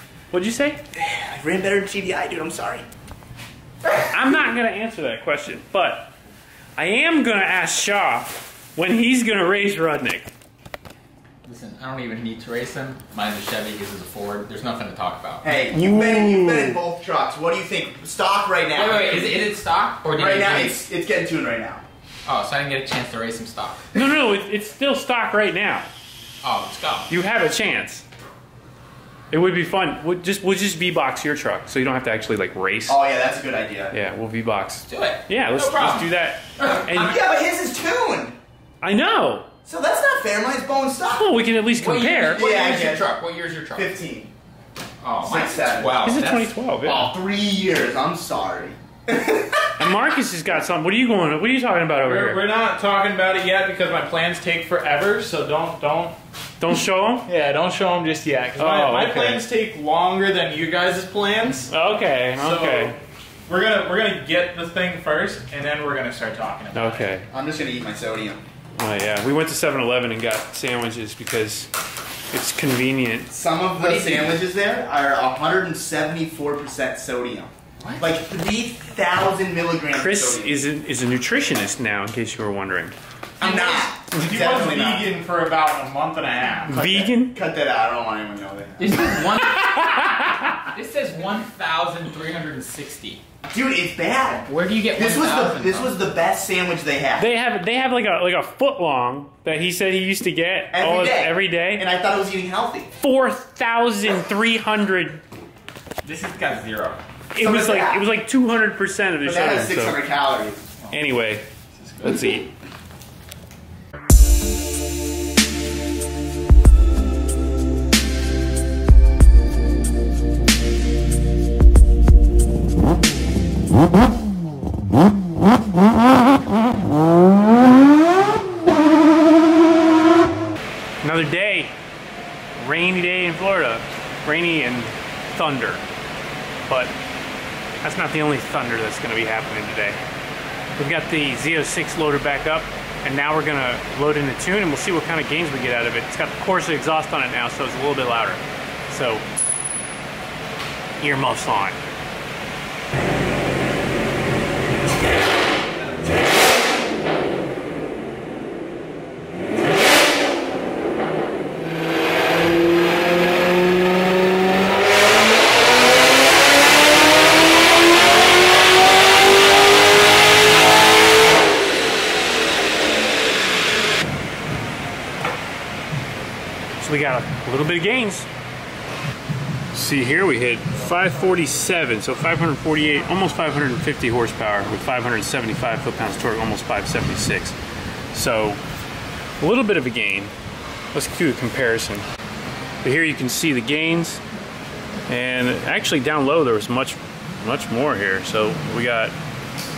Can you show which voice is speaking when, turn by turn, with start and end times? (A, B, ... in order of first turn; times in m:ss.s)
0:00.3-0:00.8 A
0:00.9-0:02.8 B
0:04.0-0:06.1 A
0:06.8-0:10.3 A
0:11.4-0:15.4 C
0:15.4-0:19.2 B
0:15.7-0:16.8 A
0:18.7-0:20.8 C
0:20.1-0:21.8 B
0:22.2-0:23.9 C
0:23.9-0:25.9 A
0:26.4-0:27.1 C
0:27.1-0:28.0 A
0:29.3-0:33.0 A
0:32.9-0:33.9 B
0:33.9-0:37.2 A
0:34.9-0:36.1 C
0:36.8-0:38.4 B
0:38.8-0:39.5 A
0:39.6-0:41.3 B
0:41.1-0:42.4 A
0:41.8-0:43.9 C
0:42.3-0:43.1 B
0:43.8-0:44.3 B
0:45.0-0:46.5 C
0:45.2-0:46.1 B
0:46.0-0:47.1 A
0:46.8-0:49.8 B
0:49.8-0:52.4 A
0:52.0-0:56.2 D
0:56.6-0:57.3 A
0:57.3-1:01.7 D
0:58.6-0:59.4 A
1:01.7-1:03.0 A
1:02.4-1:03.0 D
1:03.5-1:06.8 D
1:06.7-1:07.3 A
1:07.3-1:08.4 B
1:08.8-1:11.7 A
1:12.3-1:13.3 A
1:13.3-1:20.5 B
1:13.8-1:14.4 C
1:19.9-1:22.9 A
1:23.4-1:24.0 C
1:23.4-1:25.1 B
1:24.1-1:26.7 D
1:26.7-1:29.1 B
1:26.7-1:27.3 A
1:28.8-1:33.2 C
1:29.4-1:30.7 A
1:33.5-1:37.3 B
1:34.5-1:35.9 C
1:37.2-1:41.8 A
1:40.7-1:42.9 B
1:43.0-1:45.2 A
1:46.0-1:47.0 C
1:47.3-1:50.0 A
1:47.4-1:48.1 B
1:49.2-1:50.6 B
1:50.9-1:51.5 A
1:51.8-1:52.3 C
1:52.0-1:52.5 A
2:11.0-2:11.7 A
2:12.6-2:15.8 A
2:16.7-2:16.9 A
2:17.8-2:20.0 A
2:20.8-2:29.2 A
2:31.0-2:31.8 A
2:56.8-2:58.3 A
2:59.7-3:07.6 A
3:08.1-3:08.6 A
3:09.4-3:10.3 A
3:10.9-3:12.0 A
3:12.8-3:14.2 A
3:15.1-3:19.1 A